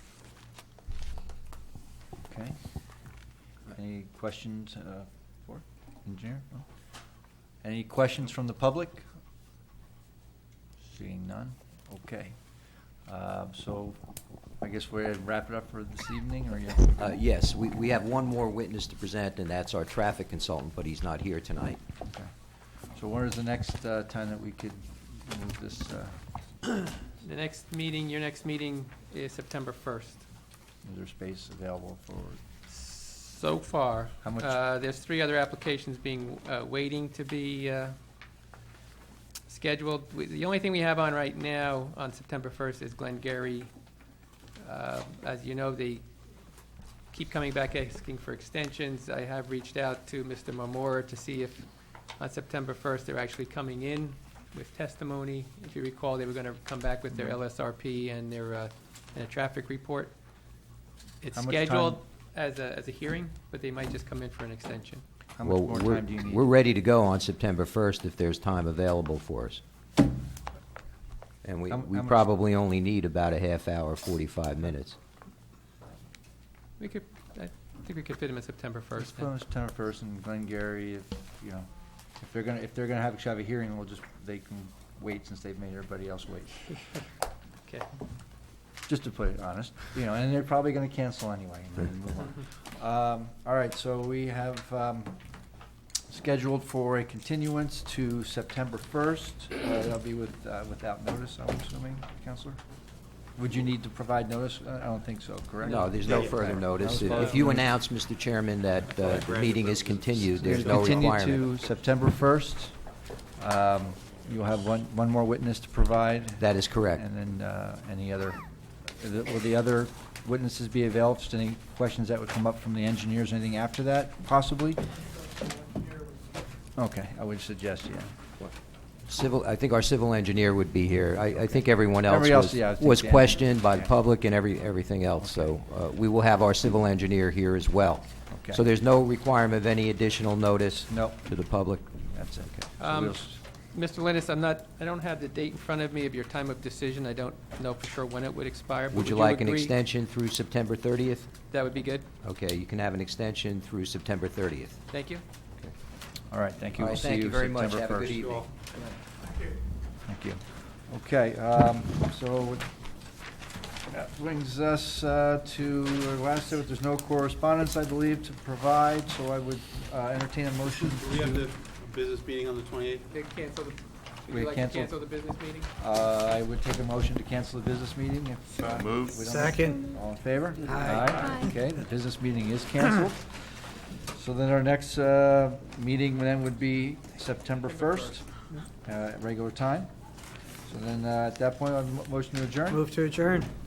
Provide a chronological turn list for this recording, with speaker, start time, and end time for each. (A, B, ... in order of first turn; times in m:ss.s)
0:02.3-0:02.6 A
0:03.7-0:06.7 A
0:07.6-0:09.1 A
0:10.8-0:12.4 A
0:13.0-0:14.0 A
0:14.6-0:17.1 A
0:17.0-0:21.8 B
0:22.9-0:26.2 A
0:27.2-0:30.2 C
0:30.8-0:32.4 A
0:32.7-0:38.0 C
0:34.2-0:34.6 A
0:39.5-0:43.7 C
0:44.6-0:46.0 C
0:47.1-0:51.7 C
0:52.2-1:00.1 C
1:01.2-1:05.0 C
1:01.3-1:02.0 A
1:05.4-1:06.5 A
1:05.4-1:09.6 B
1:11.4-1:15.0 B
1:11.7-1:12.2 A
1:16.8-1:19.3 C
1:19.0-1:26.7 A
1:28.9-1:35.2 A
1:36.1-1:42.6 A
1:43.4-1:47.7 A
1:45.6-1:51.5 B
1:46.0-1:47.3 D
1:47.1-1:47.4 C
1:48.9-1:51.2 D
1:50.4-1:58.4 A
1:56.4-1:57.0 B
1:59.0-2:04.8 A
2:06.8-2:08.5 A
2:09.1-2:22.6 B
2:11.2-2:14.0 A
2:15.1-2:15.6 A
2:18.3-2:18.6 A
2:20.9-2:21.2 A
2:22.1-2:23.4 A
2:22.8-2:29.8 C
2:28.9-2:31.3 B
2:31.5-2:32.1 C
2:32.2-2:34.9 B
2:34.9-2:35.2 C
2:36.3-2:38.4 A
2:36.8-2:38.5 B
2:38.1-2:38.4 D
2:40.0-2:42.7 A
2:43.9-2:51.5 A
2:50.9-2:53.1 D
2:53.1-2:55.7 C
2:54.3-2:55.0 A
2:55.8-3:03.4 A
2:59.2-2:59.9 E
3:00.7-3:01.5 E
3:00.8-3:01.3 D
3:04.1-3:08.3 A
3:07.6-3:08.2 C
3:08.8-3:09.9 A
3:10.7-3:12.9 A
3:12.7-3:13.5 E